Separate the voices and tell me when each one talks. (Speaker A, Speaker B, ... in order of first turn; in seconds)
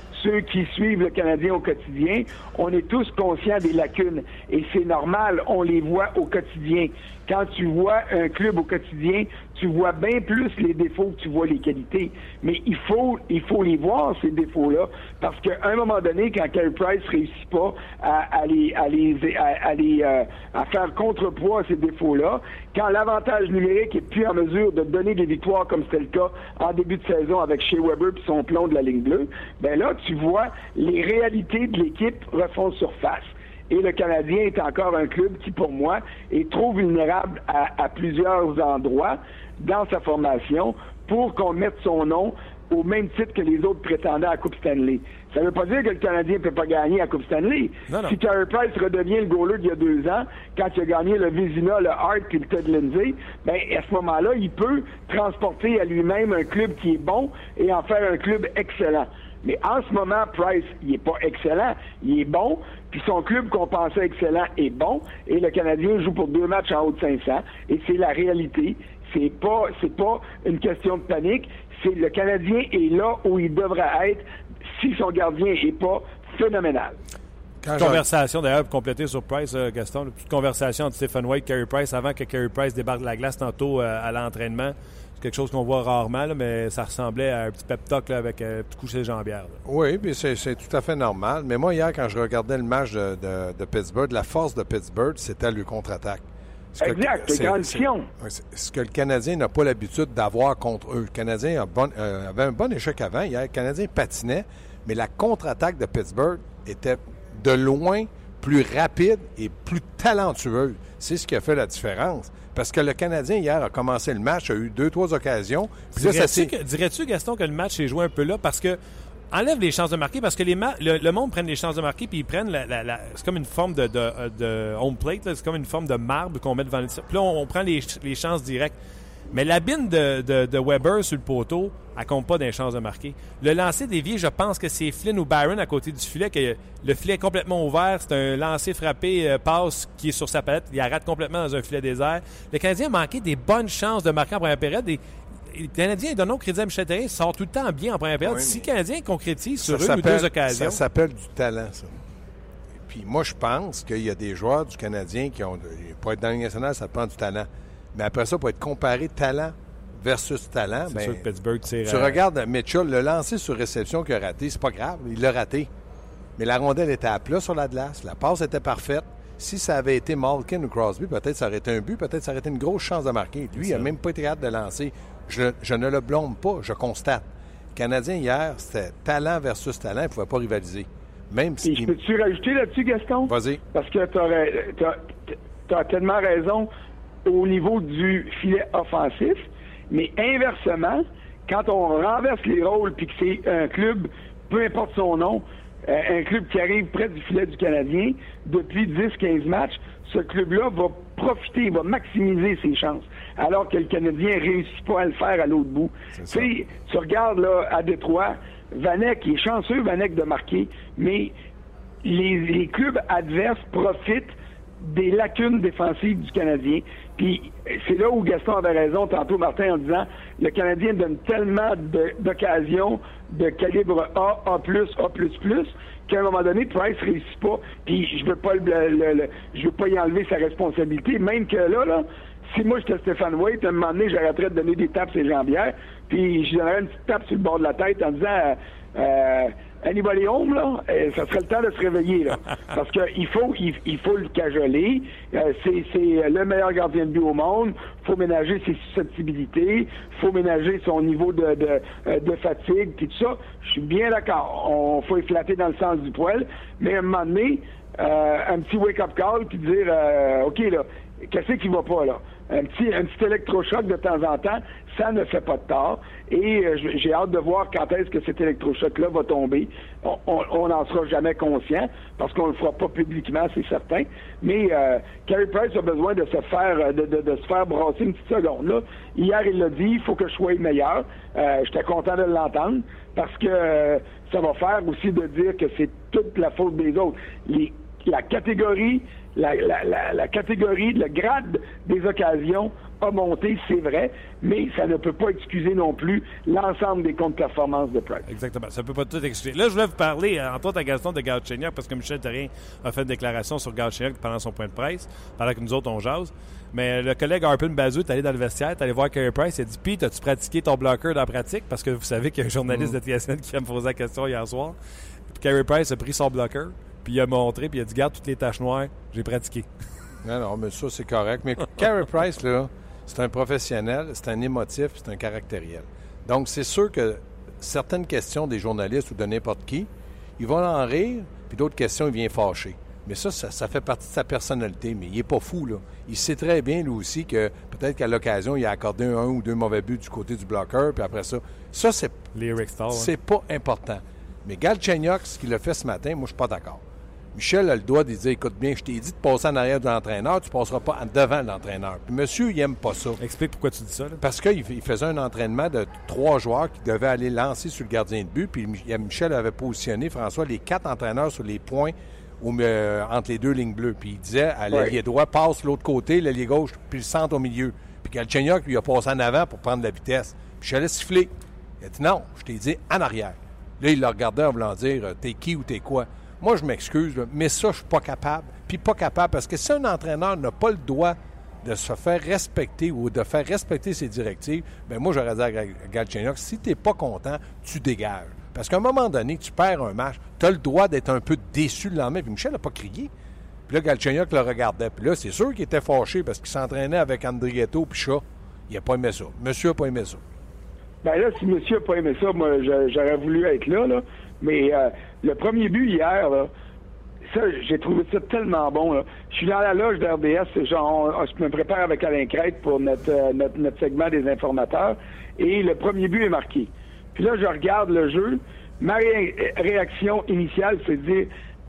Speaker A: 0.1-74.2, 74.8-77.0, 96.8-98.1, 181.6-186.7, 187.2-211.3, 212.0-298.3, 401.0-406.5, 407.3-421.3
Speaker B: 47.9-48.1, 77.8-89.6, 116.0-118.8, 119.3-128.8, 129.3-150.8, 160.9-162.2, 173.6-173.9, 298.3-314.8, 315.3-319.7, 342.3-343.1, 353.2-354.2
Speaker C: 77.6-78.0, 89.7-96.2, 96.8-116.5, 148.2-148.7, 149.6-152.0, 152.8-161.2, 161.8-165.7, 166.4-181.9, 183.2-183.6, 206.2-206.5, 320.2-342.3, 342.9-346.8, 347.4-353.2, 354.2-393.1, 393.7-400.2